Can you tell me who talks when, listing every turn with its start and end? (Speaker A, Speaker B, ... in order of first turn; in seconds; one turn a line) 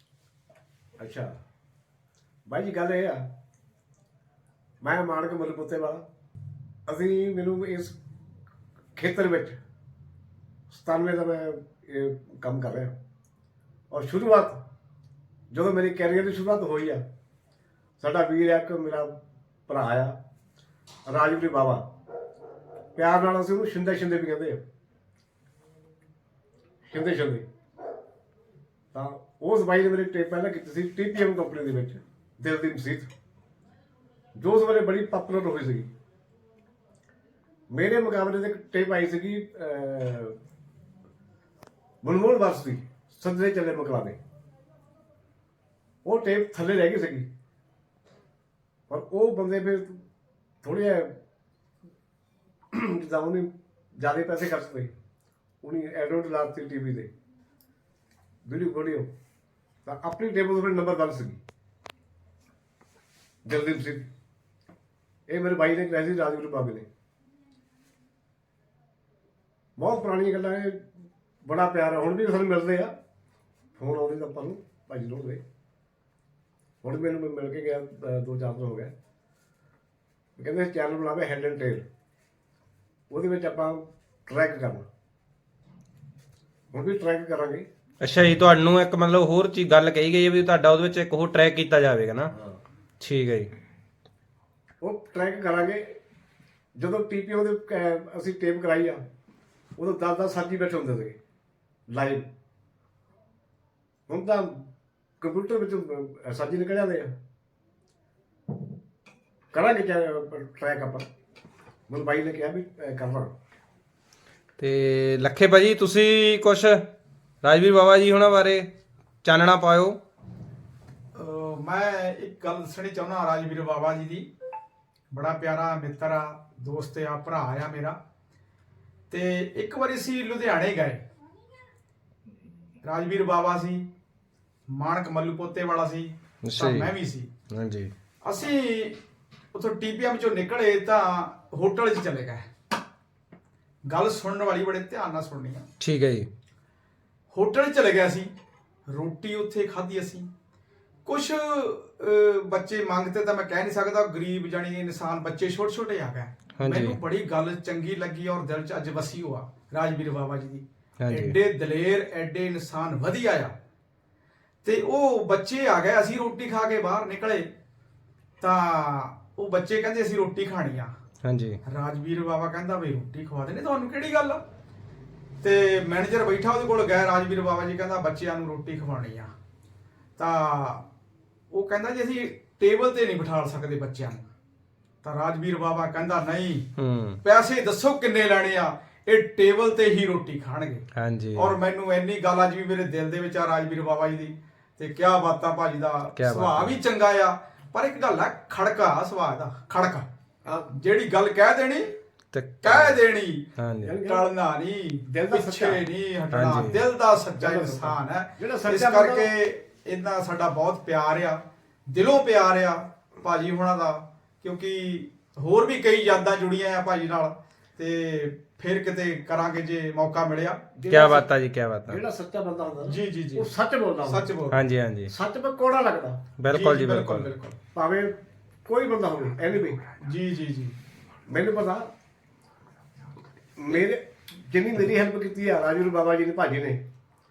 Speaker A: 1.0-1.3
Speaker A: 2.5-3.3
Speaker A: 4.8-6.0
Speaker A: 6.9-8.0
Speaker A: 9.0-9.6
Speaker A: 10.7-12.9
Speaker A: 13.9-14.6
Speaker A: 15.5-17.0
Speaker A: 18.0-19.2
Speaker A: 19.7-20.1
Speaker A: 21.1-21.9
Speaker A: 22.9-24.6
Speaker A: 26.9-27.4
Speaker A: 28.9-33.1
Speaker A: 34.4-35.9
Speaker A: 37.7-40.4
Speaker A: 42.0-44.2
Speaker A: 46.0-47.3
Speaker A: 48.9-50.0
Speaker A: 50.6-51.1
Speaker A: 52.7-54.9
Speaker A: 55.6-57.1
Speaker A: 58.5-59.1
Speaker A: 59.8-61.4
Speaker A: 63.5-64.1
Speaker A: 65.3-66.9
Speaker A: 69.8-70.8
Speaker A: 71.4-72.9
Speaker A: 73.8-75.4
Speaker A: 76.8-78.9
Speaker A: 80.4-81.8
Speaker A: 83.1-84.9
Speaker A: 86.7-87.7
Speaker B: 88.0-92.3
Speaker A: 92.3-92.6
Speaker B: 93.0-93.5
Speaker A: 94.8-95.9
Speaker A: 96.8-99.0
Speaker A: 99.8-101.2
Speaker A: 101.9-102.3
Speaker A: 104.1-104.7
Speaker A: 105.2-107.1
Speaker A: 109.5-111.1
Speaker A: 111.9-113.3
Speaker B: 114.6-116.8
Speaker B: 117.4-118.7
Speaker B: 119.2-120.0
Speaker C: 121.2-124.3
Speaker C: 125.1-128.0
Speaker C: 129.1-131.0
Speaker C: 132.8-133.9
Speaker C: 134.7-137.3
Speaker B: 136.4-136.9
Speaker B: 137.5-137.9
Speaker C: 138.2-139.0
Speaker C: 139.5-142.4
Speaker C: 143.9-145.7
Speaker B: 145.8-146.3
Speaker C: 147.3-148.3
Speaker C: 148.9-150.3
Speaker C: 151.1-163.5
Speaker B: 156.6-157.0
Speaker B: 161.0-161.3
Speaker C: 164.6-167.5
Speaker C: 168.4-170.9
Speaker B: 171.2-171.6
Speaker C: 171.7-174.4
Speaker C: 175.4-179.3
Speaker C: 180.2-180.8
Speaker C: 181.5-184.3
Speaker C: 185.0-186.7
Speaker B: 186.8-187.2
Speaker C: 187.2-190.8
Speaker B: 190.9-191.6
Speaker C: 191.4-200.1
Speaker B: 196.2-196.8
Speaker A: 200.4-200.7
Speaker C: 200.7-201.9
Speaker B: 202.3-203.0
Speaker C: 202.6-203.4
Speaker B: 203.6-204.0
Speaker A: 203.8-204.2
Speaker C: 204.0-220.6
Speaker A: 205.1-205.8
Speaker B: 206.3-206.8
Speaker A: 207.4-209.3
Speaker A: 220.8-221.3
Speaker B: 220.9-222.0
Speaker A: 221.9-224.3
Speaker C: 222.9-223.5
Speaker C: 224.1-224.6
Speaker B: 224.5-225.1
Speaker A: 225.1-226.2
Speaker B: 226.4-227.3
Speaker C: 226.5-227.6
Speaker A: 227.7-229.8
Speaker C: 230.0-230.8
Speaker A: 231.3-231.9
Speaker A: 233.6-236.8